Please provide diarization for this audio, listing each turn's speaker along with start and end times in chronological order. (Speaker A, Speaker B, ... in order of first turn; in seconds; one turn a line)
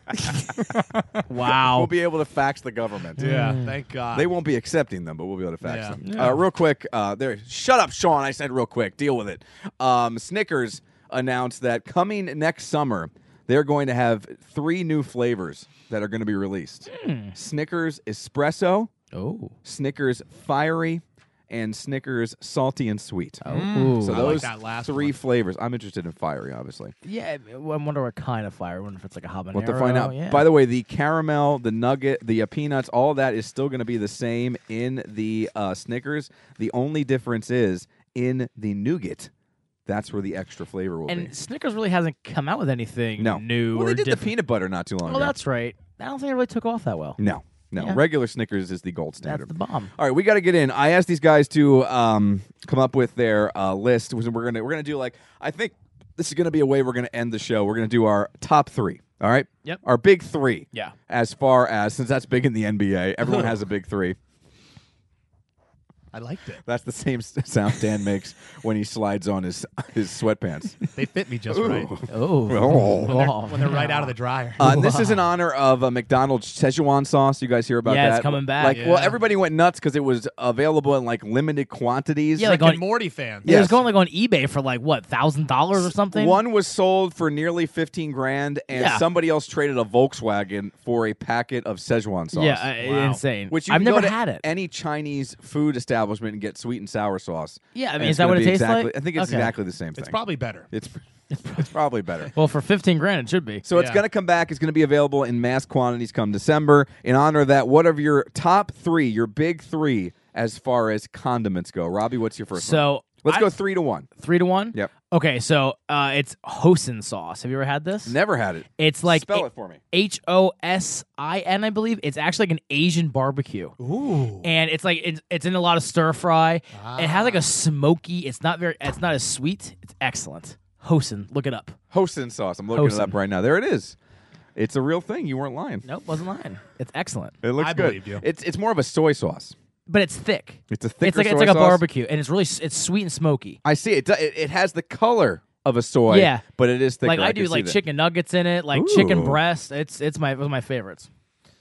Speaker A: 0.6-1.2
Speaker B: 1.3-1.9
Speaker C: 1.6-3.2
Speaker B: 3.2-3.7
Speaker A: 3.2-4.3
Speaker C: 4.1-18.9
Speaker A: 5.6-6.0
Speaker B: 6.0-6.4
Speaker B: 16.9-17.3
Speaker B: 19.1-19.5
Speaker C: 19.6-26.9
Speaker B: 23.4-24.3
Speaker A: 23.4-25.1
Speaker B: 27.0-30.4
Speaker C: 29.5-39.3
Speaker C: 39.9-41.3
Speaker B: 41.1-44.3
Speaker C: 43.2-45.3
Speaker B: 45.0-47.2
Speaker C: 47.2-64.2
Speaker B: 49.2-49.9
Speaker A: 66.1-66.6
Speaker C: 66.6-70.8
Speaker A: 70.9-71.9
Speaker C: 71.5-73.1
Speaker B: 72.1-74.1
Speaker A: 73.0-75.1
Speaker C: 74.6-82.5
Speaker B: 77.8-78.8
Speaker A: 78.7-79.2
Speaker B: 82.4-82.8
Speaker A: 82.4-83.7
Speaker B: 83.4-86.4
Speaker C: 83.4-83.8
Speaker C: 85.7-92.7
Speaker B: 88.7-89.0
Speaker B: 92.3-94.4
Speaker A: 92.8-93.2
Speaker C: 93.5-100.2
Speaker B: 97.7-99.5
Speaker A: 100.0-100.7
Speaker C: 100.7-101.0
Speaker B: 101.3-101.7
Speaker C: 101.5-102.3
Speaker B: 102.3-103.6
Speaker C: 103.6-114.1
Speaker A: 103.7-104.0
Speaker B: 112.5-113.5
Speaker B: 114.2-118.2
Speaker C: 118.0-119.8
Speaker B: 118.8-123.7
Speaker A: 123.8-124.5
Speaker B: 124.4-131.8
Speaker A: 126.7-127.5
Speaker C: 131.9-133.9
Speaker B: 132.7-133.1
Speaker C: 134.6-135.8
Speaker B: 135.8-137.4
Speaker C: 137.4-139.5
Speaker A: 137.6-138.2
Speaker B: 139.9-143.6
Speaker C: 140.7-141.8
Speaker C: 143.6-147.8
Speaker B: 146.1-146.4
Speaker B: 147.0-151.1
Speaker C: 148.7-149.4